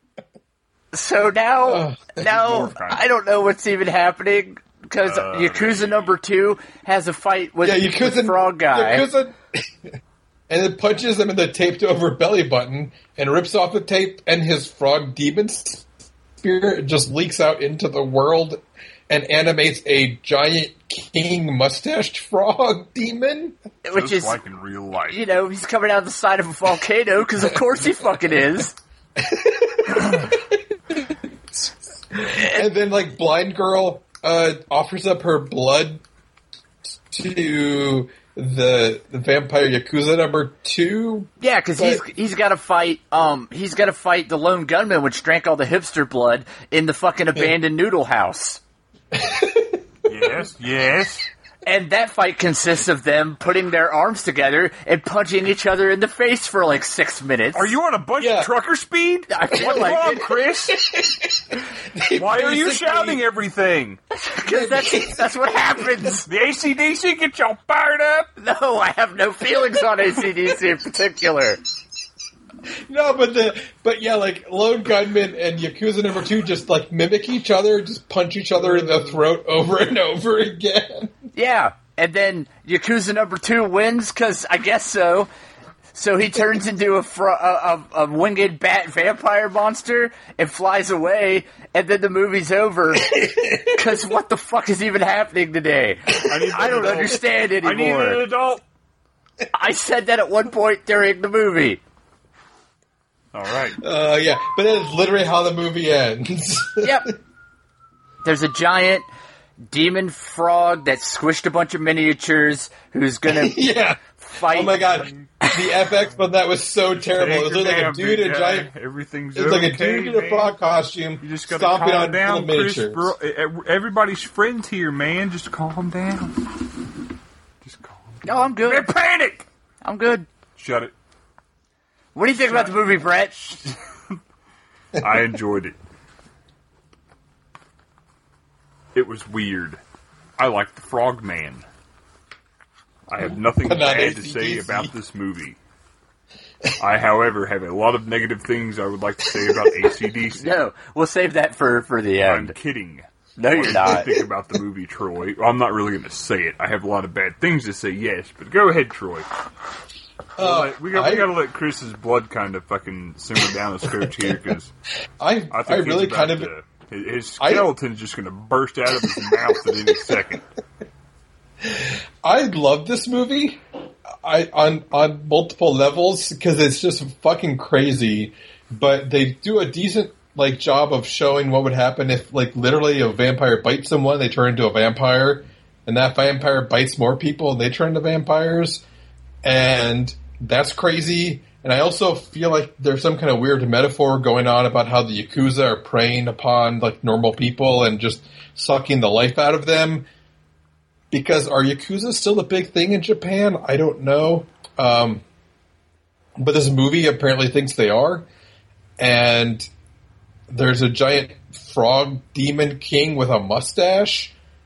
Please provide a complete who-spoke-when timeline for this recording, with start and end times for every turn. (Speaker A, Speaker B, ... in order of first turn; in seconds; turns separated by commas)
Speaker A: 0.9-9.1, Speaker B: 1.7-2.2, Speaker C: 2.2-3.0, Speaker C: 5.0-6.1, Speaker B: 7.6-9.7, Speaker B: 10.5-15.9, Speaker B: 16.4-23.6, Speaker A: 23.9-24.4, Speaker C: 23.9-25.2, Speaker A: 25.1-28.7, Speaker B: 29.2-30.6, Speaker B: 31.6-36.0, Speaker A: 32.3-32.7, Speaker B: 37.1-42.0, Speaker A: 41.4-48.6, Speaker B: 49.1-49.8, Speaker C: 50.1-51.3, Speaker A: 51.6-57.7, Speaker C: 57.5-60.9, Speaker B: 58.2-58.5, Speaker A: 59.3-60.3, Speaker B: 60.7-63.2, Speaker C: 62.1-64.0, Speaker A: 64.1-66.3, Speaker B: 64.5-66.1, Speaker C: 66.3-68.3, Speaker A: 68.4-71.6, Speaker B: 72.9-81.2, Speaker A: 81.3-85.3, Speaker A: 85.9-98.2, Speaker B: 93.1-93.8, Speaker C: 96.2-98.6, Speaker B: 96.3-96.9, Speaker A: 99.5-101.8, Speaker C: 103.3-103.8, Speaker B: 103.8-107.1, Speaker A: 106.8-107.1, Speaker A: 108.2-109.1, Speaker A: 109.7-114.8, Speaker B: 113.3-118.7, Speaker C: 114.9-115.3, Speaker C: 117.1-120.5, Speaker B: 119.3-123.1, Speaker C: 121.2-126.6, Speaker C: 127.6-129.5, Speaker A: 128.2-128.9, Speaker A: 129.8-130.3, Speaker C: 130.6-130.9, Speaker A: 132.1-133.6, Speaker C: 132.4-133.0, Speaker C: 135.0-135.8, Speaker C: 138.9-139.8, Speaker C: 140.4-141.7, Speaker C: 143.1-145.6, Speaker B: 143.7-144.9, Speaker C: 146.8-150.6, Speaker B: 149.3-149.9, Speaker A: 150.3-152.6, Speaker C: 152.3-159.3, Speaker A: 153.4-154.1, Speaker B: 160.4-161.3, Speaker C: 160.4-164.7, Speaker B: 165.2-166.5, Speaker C: 165.5-170.4, Speaker B: 167.4-167.7, Speaker B: 169.0-170.2, Speaker B: 171.6-173.6, Speaker B: 174.2-188.8, Speaker B: 189.4-200.1, Speaker B: 201.1-205.2, Speaker B: 206.4-208.3, Speaker B: 209.0-209.7, Speaker B: 210.5-214.3